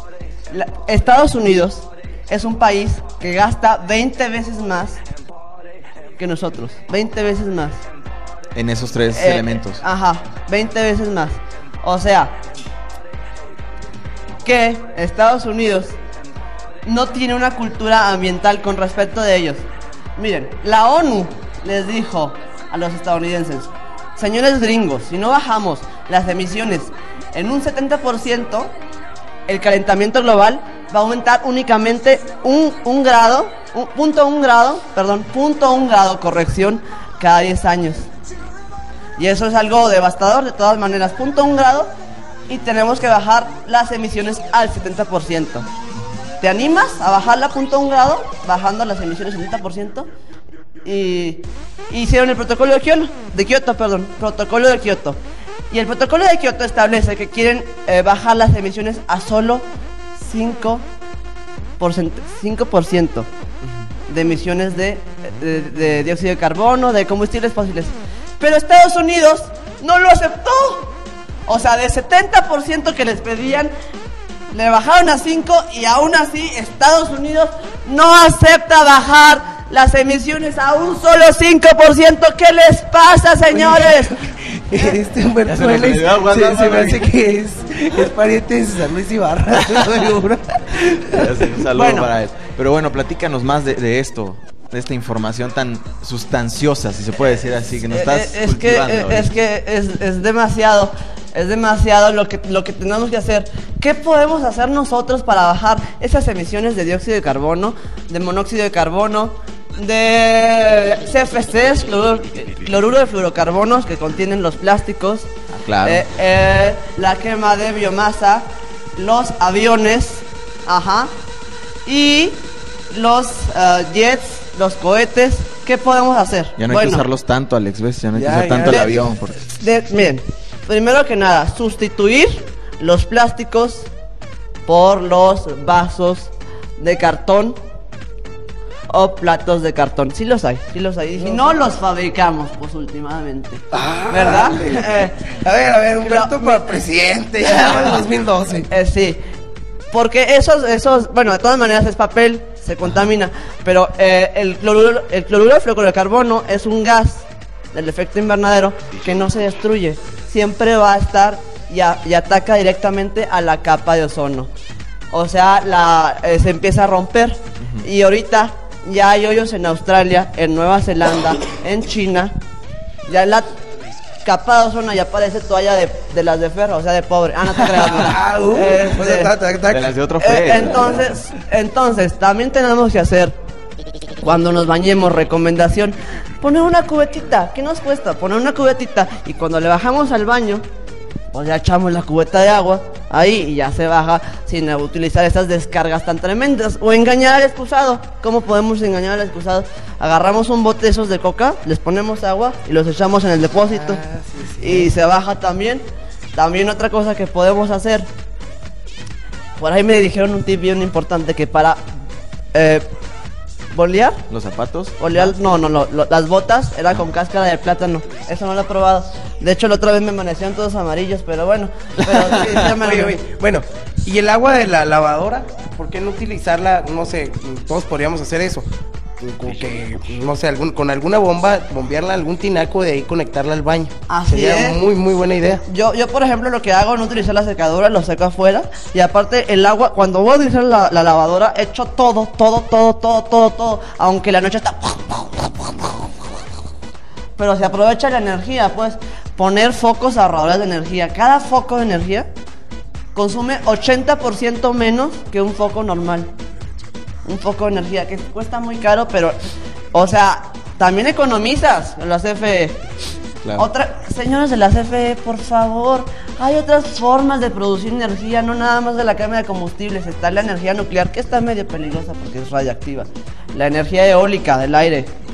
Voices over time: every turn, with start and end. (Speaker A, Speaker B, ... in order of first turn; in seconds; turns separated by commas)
Speaker A: 0.5-5.0, Speaker A: 6.2-7.8, Speaker B: 8.5-9.8, Speaker A: 9.1-12.3, Speaker A: 14.4-15.9, Speaker A: 16.8-19.6, Speaker A: 20.2-28.7, Speaker A: 29.5-38.1, Speaker A: 39.2-41.9, Speaker A: 42.5-45.7, Speaker A: 46.4-50.1, Speaker A: 50.8-55.2, Speaker A: 55.7-59.6, Speaker A: 60.2-60.8, Speaker A: 61.8-63.3, Speaker A: 64.1-70.9, Speaker A: 71.5-73.7, Speaker A: 74.5-84.2, Speaker C: 83.5-83.8, Speaker C: 84.3-91.3, Speaker B: 85.5-87.1, Speaker B: 91.1-99.3, Speaker A: 91.7-92.1, Speaker A: 97.9-115.3, Speaker B: 115.5-116.0, Speaker A: 115.8-121.1, Speaker A: 121.8-127.0, Speaker B: 126.6-129.4, Speaker C: 128.2-129.0, Speaker A: 128.6-128.9, Speaker A: 129.6-133.9, Speaker A: 134.7-137.6, Speaker A: 138.9-145.4, Speaker C: 143.7-148.7, Speaker A: 146.0-146.7, Speaker A: 148.7-149.2, Speaker A: 149.9-164.5, Speaker A: 165.1-172.3, Speaker A: 173.1-173.5, Speaker A: 174.2-179.3, Speaker C: 177.8-179.9, Speaker B: 179.7-181.0, Speaker A: 180.2-183.3, Speaker A: 184.2-190.6, Speaker A: 191.3-204.0, Speaker C: 203.6-204.9, Speaker A: 204.6-205.8, Speaker A: 206.3-208.1, Speaker A: 209.6-211.8, Speaker A: 212.5-212.8, Speaker A: 213.7-214.2, Speaker B: 214.3-214.9, Speaker A: 215.0-223.2, Speaker C: 222.6-228.7, Speaker C: 229.2-235.6, Speaker A: 234.1-234.8, Speaker A: 235.7-246.1, Speaker A: 247.4-252.3, Speaker A: 253.1-256.3, Speaker A: 257.2-259.4, Speaker A: 259.9-262.8, Speaker A: 263.6-275.1